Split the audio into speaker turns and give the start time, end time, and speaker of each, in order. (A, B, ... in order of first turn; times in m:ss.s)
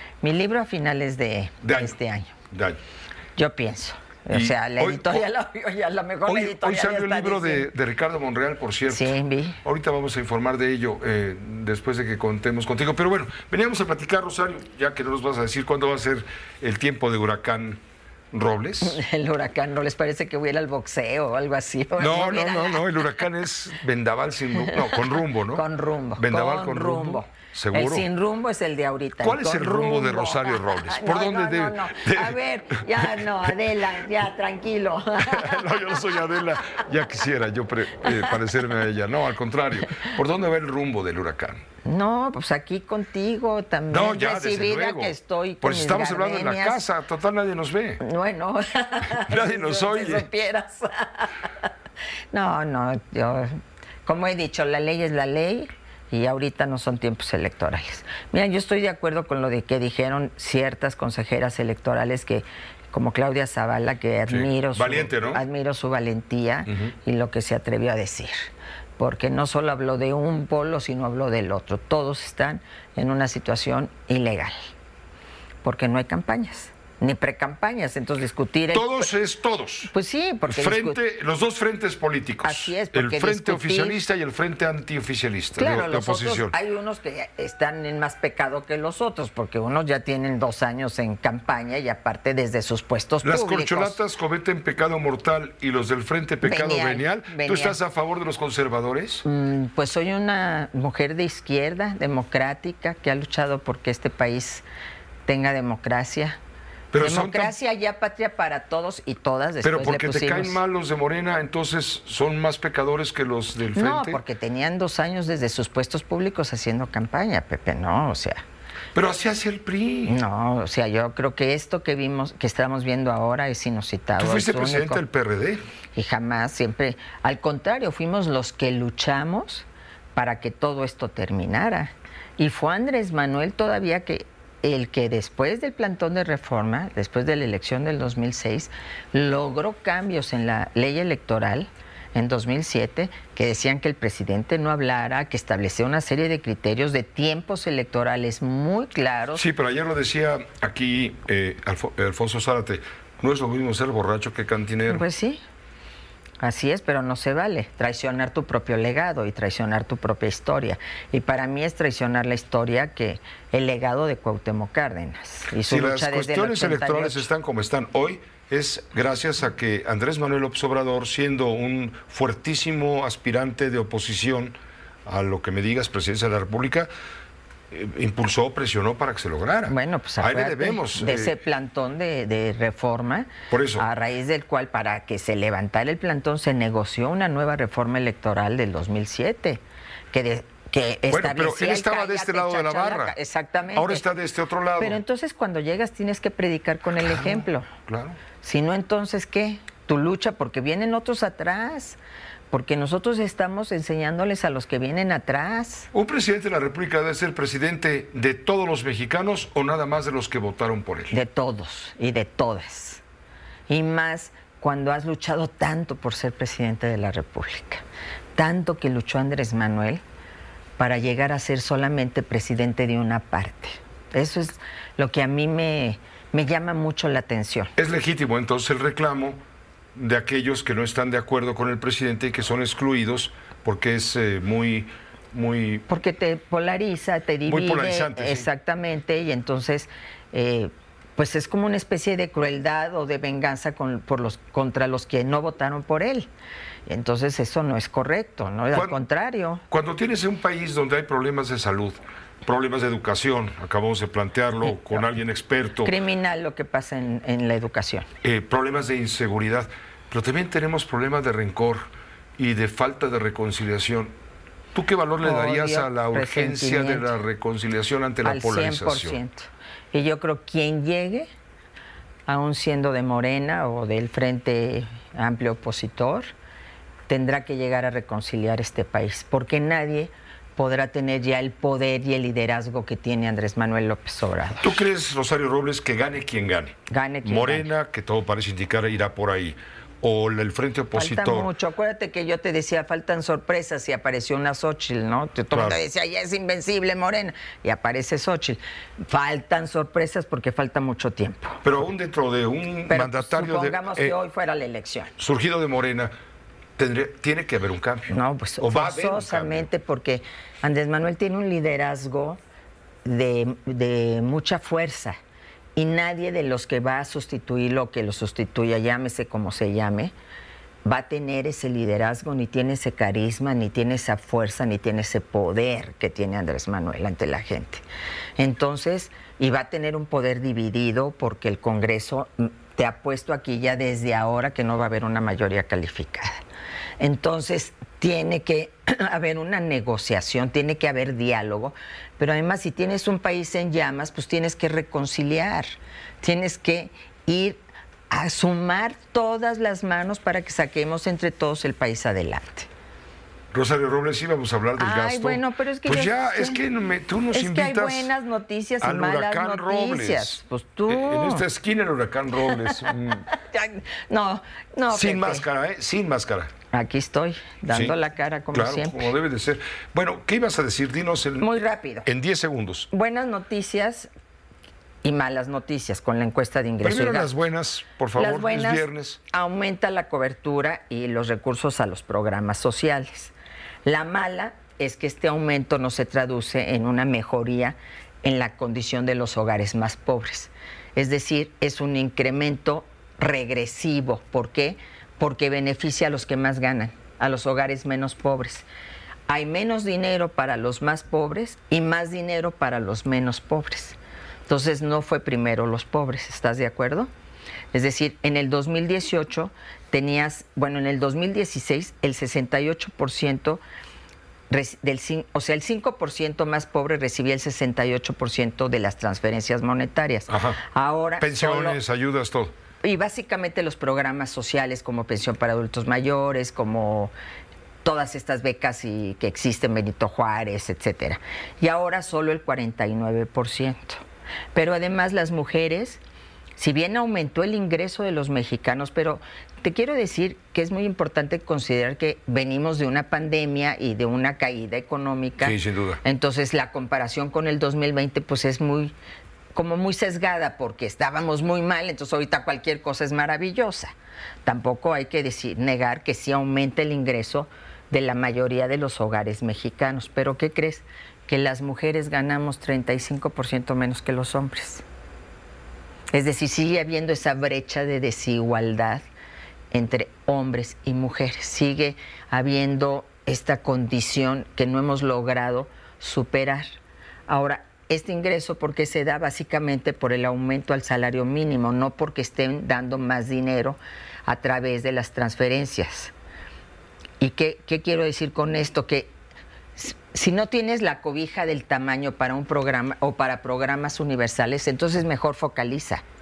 0:00.2-0:02.3 A
0:01.6-0:02.0 B
0:02.5-0:02.8 B
0:03.4-0:07.7 A
0:04.3-0:05.3 B
0:06.3-0:19.0 B
0:08.9-0:09.6 A
0:18.8-0:23.2 A
0:22.0-0:25.6 B
0:24.6-0:36.0 A
0:26.2-0:28.1 B
0:29.2-0:32.4 B
0:32.9-0:33.5 B
0:35.2-0:41.6 B
0:41.8-0:46.8 A
0:43.9-0:48.0 B
0:48.0-0:51.3 A
0:49.2-0:50.3 B
0:52.3-1:14.5 A
1:04.3-1:05.4 B
1:06.7-1:06.9 B
1:15.6-1:19.1 A
1:18.7-1:19.9 B
1:19.9-1:21.0 A
1:20.5-1:26.6 B
1:22.4-1:24.0 A
1:25.6-1:34.0 A
1:33.2-1:39.2 B
1:36.4-1:37.8 A
1:39.2-1:44.6 A
1:45.2-1:46.4 A
1:46.9-1:47.5 B
1:47.0-1:50.6 A
1:49.6-1:54.2 B
1:53.7-1:58.4 A
1:58.9-2:00.2 B
2:00.1-2:05.0 A
2:04.2-2:05.6 B
2:05.9-2:29.4 A
2:29.3-2:35.0 B
2:34.9-2:35.4 A
2:36.4-2:47.3 A
2:45.6-2:54.6 B
2:55.1-2:56.9 B
2:57.7-3:01.4 B
2:59.7-3:14.0 A
3:03.5-3:03.8 B
3:11.1-3:13.2 B
3:13.7-3:15.0 B
3:14.8-3:17.7 A
3:17.0-3:18.2 B
3:18.4-3:22.0 A
3:22.5-3:25.9 A
3:25.9-3:31.2 B
3:31.1-3:33.0 A
3:33.7-3:37.8 A
3:38.4-3:40.0 A
3:40.8-3:47.7 A
3:47.8-3:49.4 B
3:49.9-3:55.8 B
3:55.9-4:06.3 A
3:57.5-3:58.5 B
4:06.9-4:09.6 A
4:08.7-4:09.0 B
4:09.7-4:15.9 B
4:15.8-4:18.1 A
4:18.2-4:21.9 B
4:22.4-4:24.1 B
4:24.7-4:29.2 B
4:25.2-4:27.1 A
4:28.2-4:31.3 A
4:32.3-4:36.3 A
4:37.1-4:44.8 A
4:44.6-4:51.5 B
4:46.9-4:47.7 A
4:50.9-5:01.6 A
4:55.5-4:55.8 B
5:01.6-5:04.2 B
5:02.9-5:05.1 A
5:05.2-5:06.1 B
5:06.8-5:08.1 B
5:08.1-5:12.4 A
5:08.6-5:09.7 B
5:13.0-5:15.2 A
5:15.7-5:20.1 A
5:20.8-5:27.8 A
5:28.4-5:36.4 A
5:37.0-5:52.7 A
5:53.5-5:58.1 B
5:54.8-5:56.6 A
5:57.3-6:01.4 A
5:58.8-6:03.2 B
6:02.5-6:05.4 A
6:04.9-6:06.5 B
6:06.7-6:09.1 A
6:07.7-6:08.0 B
6:08.5-6:11.5 B
6:11.4-6:12.1 A
6:12.0-6:12.9 B
6:12.9-6:14.1 A
6:15.0-6:17.3 A
6:16.8-6:19.2 B
6:18.1-6:23.3 A
6:23.8-6:38.6 A
6:39.3-6:47.1 A
6:47.7-6:53.6 A
6:54.5-7:01.8 A
7:00.3-7:00.6 B
7:01.2-7:02.5 B
7:02.8-7:07.1 A
7:07.8-7:14.0 A
7:14.5-7:16.0 A
7:16.6-7:28.9 A
7:25.4-7:26.0 B
7:29.5-7:33.9 A
7:34.4-7:44.8 A
7:46.1-7:49.0 A
7:49.7-7:56.6 A
7:57.3-8:06.1 A
8:07.2-8:09.1 A
8:09.8-8:16.0 A